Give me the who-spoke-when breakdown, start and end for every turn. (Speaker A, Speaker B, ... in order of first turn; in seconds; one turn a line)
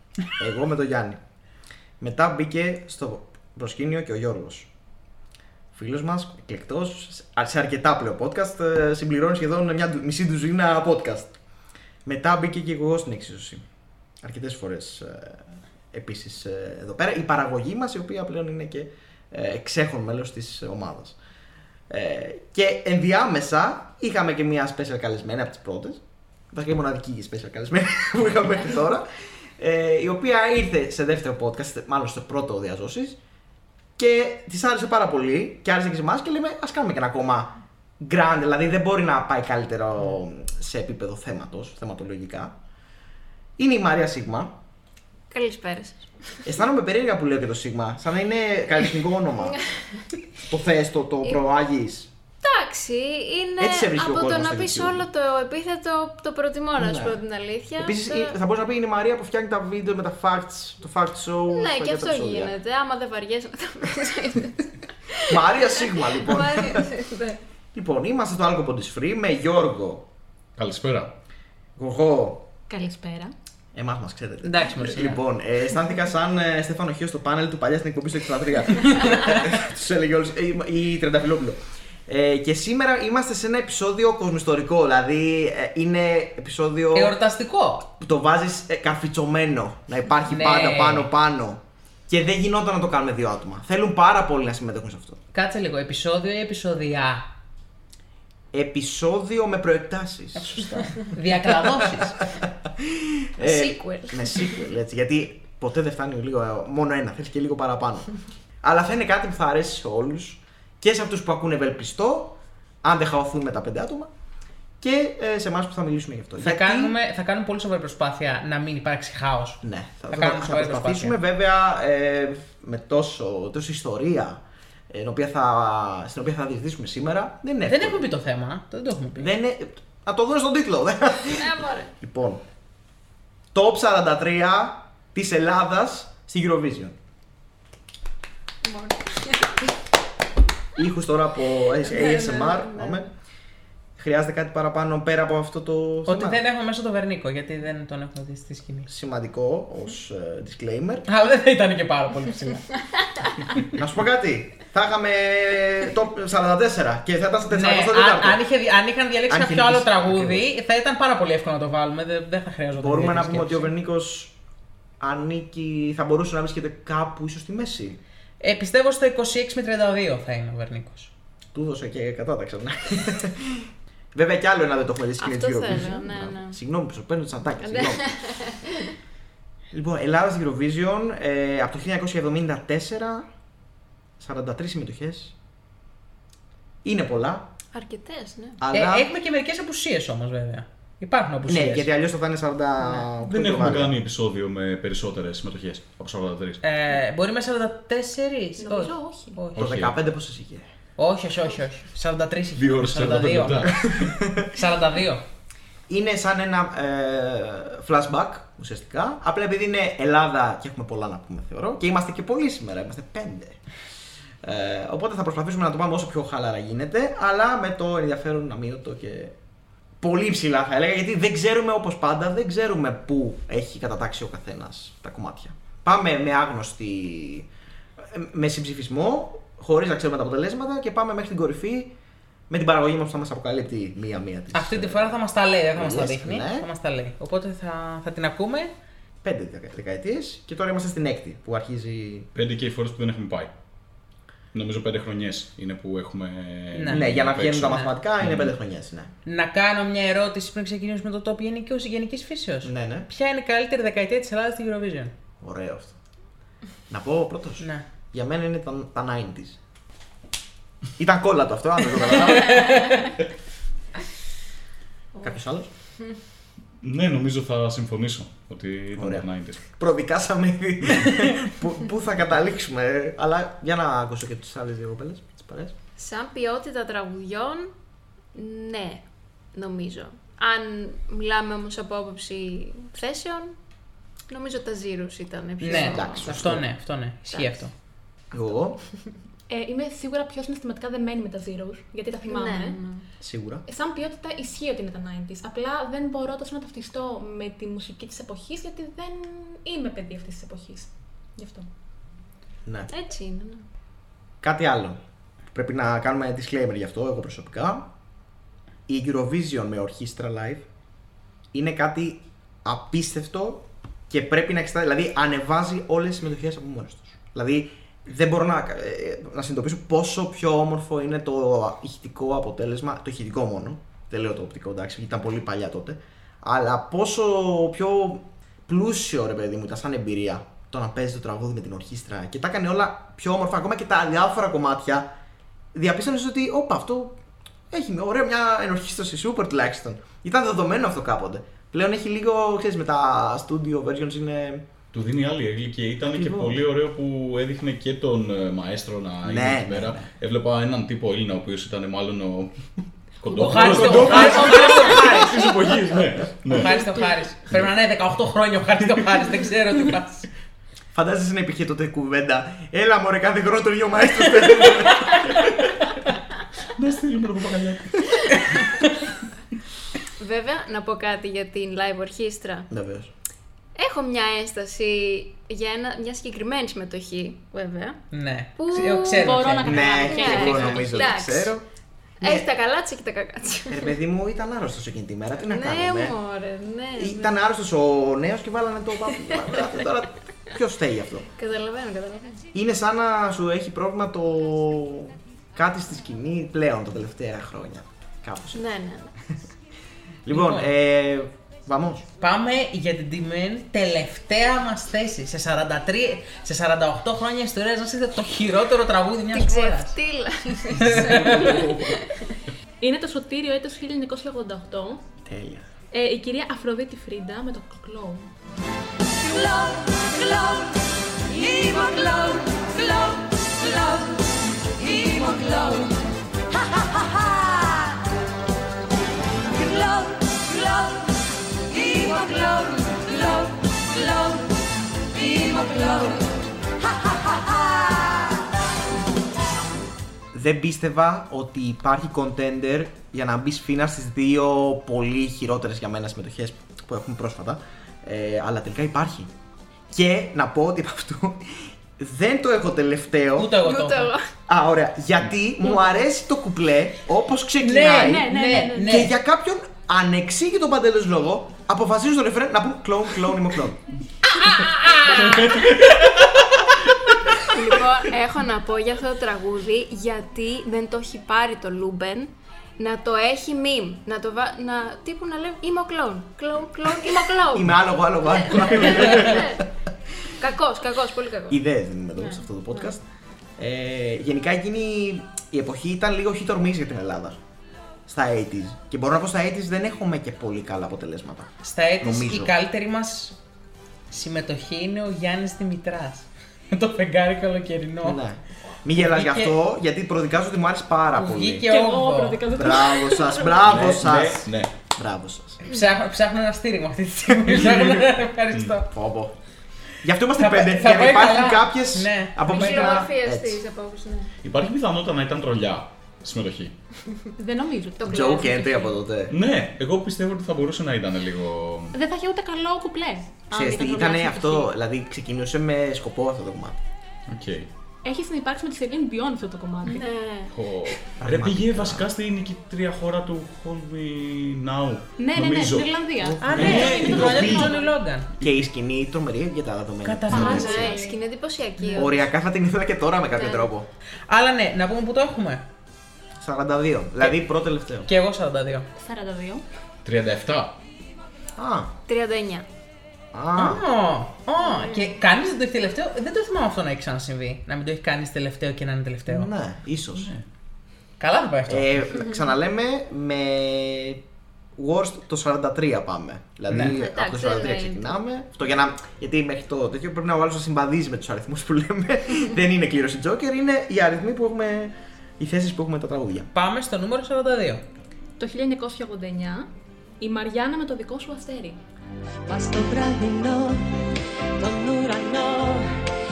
Speaker A: 0.3-1.2
Speaker A: 2.0-4.7
Speaker A: 5.7-11.3
Speaker A: 12.1-13.6
Speaker A: 14.2-21.2
Speaker A: 21.9-33.2
Speaker A: 34.0-42.6
Speaker A: 43.6-44.6
Speaker B: 45.3-46.1
Speaker A: 46.5-49.6
Speaker A: 50.5-52.1
Speaker B: 52.4-58.4
Speaker A: 53.6-55.0
Speaker A: 56.8-57.2
Speaker A: 57.8-62.5
Speaker B: 61.5-67.4
Speaker A: 65.3-66.9
Speaker A: 67.7-70.1
Speaker C: 70.6-71.2
Speaker A: 71.8-72.5
Speaker D: 72.7-73.3
Speaker A: 73.7-87.2
Speaker E: 74.4-75.2
Speaker E: 86.9-87.9
Speaker A: 88.0-95.2
Speaker E: 90.3-91.1
Speaker E: 95.3-97.3
Speaker A: 98.5-108.1
Speaker E: 100.4-102.2
Speaker B: 103.4-104.6
Speaker A: 108.6-114.1
Speaker A: 114.8-117.0
Speaker E: 116.4-121.2
Speaker A: 119.6-128.1
Speaker E: 127.7-129.4
Speaker A: 129.2-132.4
Speaker B: 131.3-131.9
Speaker A: 133.5-137.0
Speaker B: 138.6-139.6
Speaker A: 140.8-143.1
Speaker B: 141.8-143.1
Speaker A: 144.0-146.4
Speaker E: 146.1-148.9
Speaker A: 148.9-151.1
Speaker E: 151.1-152.7
Speaker A: 153.6-158.4
Speaker E: 157.5-163.7
Speaker A: 159.3-160.5
Speaker A: 162.8-164.3
Speaker A: 165.0-168.0
Speaker E: 168.4-171.1
Speaker A: 171.5-178.1
Speaker B: 175.2-176.6
Speaker B: 177.6-178.9
Speaker A: 179.7-183.3
Speaker A: 184.2-185.3
Speaker A: 186.8-187.5
Speaker B: 187.7-188.6
Speaker A: 188.6-189.1
Speaker E: 188.7-191.9
Speaker A: 191.5-194.0
Speaker C: 193.2-196.6
Speaker E: 196.6-199.6
Speaker D: 198.6-199.4
Speaker C: 199.6-199.9
Speaker A: 199.6-200.7
Speaker E: 201.0-203.8
Speaker C: 202.6-204.2
Speaker A: 203.7-204.5
Speaker E: 204.5-205.2
Speaker A: 205.9-213.6
Speaker A: 214.4-219.3
Speaker A: 220.0-227.5
Speaker A: 228.0-231.9
Speaker A: 232.5-235.2
Speaker E: 234.5-238.7
Speaker A: 235.7-236.7
Speaker A: 239.2-242.3
Speaker C: 242.3-243.5
Speaker C: 244.5-248.5
Speaker E: 246.7-247.9
Speaker A: 246.9-249.1
Speaker E: 249.3-255.1
Speaker A: 252.6-253.1
Speaker A: 255.4-256.0
Speaker A: 256.9-259.6
Speaker A: 261.0-262.9
Speaker E: 262.1-263.1
Speaker A: 265.2-265.7
Speaker C: 266.8-269.6
Speaker A: 268.9-275.8
Speaker B: 276.0-277.7
Speaker B: 278.3-279.0
Speaker B: 279.6-283.6
Speaker B: 284.3-286.3
Speaker E: 285.6-287.7
Speaker A: 285.7-286.7
Speaker A: 288.3-288.8
Speaker D: 289.5-292.8
Speaker B: 292.3-293.0
Speaker A: 293.2-293.6
Speaker D: 293.7-301.7
Speaker A: 302.7-302.9
Speaker B: 302.9-303.7
Speaker A: 304.4-305.0
Speaker A: 305.5-307.9
Speaker A: 308.9-310.6
Speaker A: 311.5-335.1
Speaker A: 335.7-337.2
Speaker A: 337.7-344.7
Speaker C: 344.9-356.9
Speaker A: 346.2-346.6
Speaker A: 349.2-350.1
Speaker E: 353.3-355.4
Speaker A: 353.5-354.6
Speaker E: 356.5-360.3
Speaker A: 360.9-365.4
Speaker C: 366.8-368.8
Speaker B: 370.2-372.7
Speaker A: 372.7-373.1
Speaker B: 373.8-378.0
Speaker E: 378.1-379.8
Speaker B: 378.6-381.6
Speaker D: 379.1-381.0
Speaker A: 379.6-381.6
Speaker A: 382.2-382.5
Speaker B: 382.2-383.9
Speaker A: 383.7-386.2
Speaker B: 385.4-387.4
Speaker A: 387.0-391.3
Speaker B: 389.3-389.9
Speaker B: 391.4-392.4
Speaker A: 392.5-398.6
Speaker B: 398.5-399.1
Speaker A: 400.2-402.1
Speaker E: 400.3-400.7
Speaker E: 402.2-410.0
Speaker B: 409.3-412.3
Speaker E: 410.8-411.7
Speaker C: 410.9-412.0
Speaker D: 412.8-415.1
Speaker A: 415.2-415.7
Speaker D: 415.9-418.3
Speaker F: 419.2-428.0
Speaker F: 429.5-434.6
Speaker F: 435.1-438.4
Speaker A: 440.3-449.3
Speaker A: 449.9-453.6
Speaker E: 453.4-454.1
Speaker B: 453.6-454.2
Speaker A: 454.5-463.8
Speaker E: 457.6-459.2
Speaker B: 464.4-465.6
Speaker C: 465.2-465.9
Speaker B: 467.4-477.8
Speaker A: 477.5-479.7
Speaker B: 478.3-479.6
Speaker B: 480.4-481.6
Speaker A: 481.5-483.0
Speaker B: 482.2-482.9
Speaker A: 483.6-487.4
Speaker A: 488.1-492.6
Speaker E: 491.6-493.4
Speaker E: 494.1-498.2
Speaker A: 498.0-501.7
Speaker E: 498.9-499.6
Speaker E: 501.2-502.4
Speaker D: 501.7-503.6
Speaker A: 502.6-505.6
Speaker C: 503.6-504.7
Speaker E: 505.6-508.9
Speaker A: 507.3-507.9
Speaker C: 507.5-508.0
Speaker C: 508.5-508.8
Speaker A: 508.9-509.4
Speaker A: 510.0-513.6
Speaker E: 510.4-513.1
Speaker B: 512.5-514.3
Speaker C: 514.4-516.8
Speaker D: 517.4-518.9
Speaker B: 518.0-518.5
Speaker A: 518.1-519.4
Speaker C: 519.3-522.0
Speaker D: 521.9-524.7
Speaker A: 523.5-526.8
Speaker C: 527.3-527.7
Speaker D: 528.0-530.0
Speaker B: 529.8-530.5
Speaker C: 530.5-536.0
Speaker A: 531.2-532.1
Speaker D: 535.2-537.9
Speaker A: 536.2-537.6
Speaker E: 536.4-538.3
Speaker C: 536.5-537.8
Speaker A: 538.4-541.0
Speaker E: 540.0-540.8
Speaker C: 540.3-540.6
Speaker D: 540.3-541.2
Speaker B: 540.5-542.2
Speaker A: 542.0-543.9
Speaker B: 543.3-543.7
Speaker E: 544.3-545.6
Speaker A: 546.4-548.1
Speaker E: 548.1-548.9
Speaker D: 549.0-549.6
Speaker C: 550.0-550.8
Speaker A: 551.6-551.9
Speaker B: 552.1-552.6
Speaker A: 553.3-553.8
Speaker E: 553.5-559.5
Speaker B: 554.7-555.1
Speaker A: 559.3-560.3
Speaker C: 560.1-560.4
Speaker E: 561.2-562.1
Speaker A: 561.7-564.2
Speaker A: 564.8-576.5
Speaker E: 566.7-567.0
Speaker B: 567.0-568.2
Speaker E: 576.5-577.8
Speaker D: 578.4-579.7
Speaker D: 580.2-581.8
Speaker F: 582.5-584.1
Speaker F: 584.6-585.9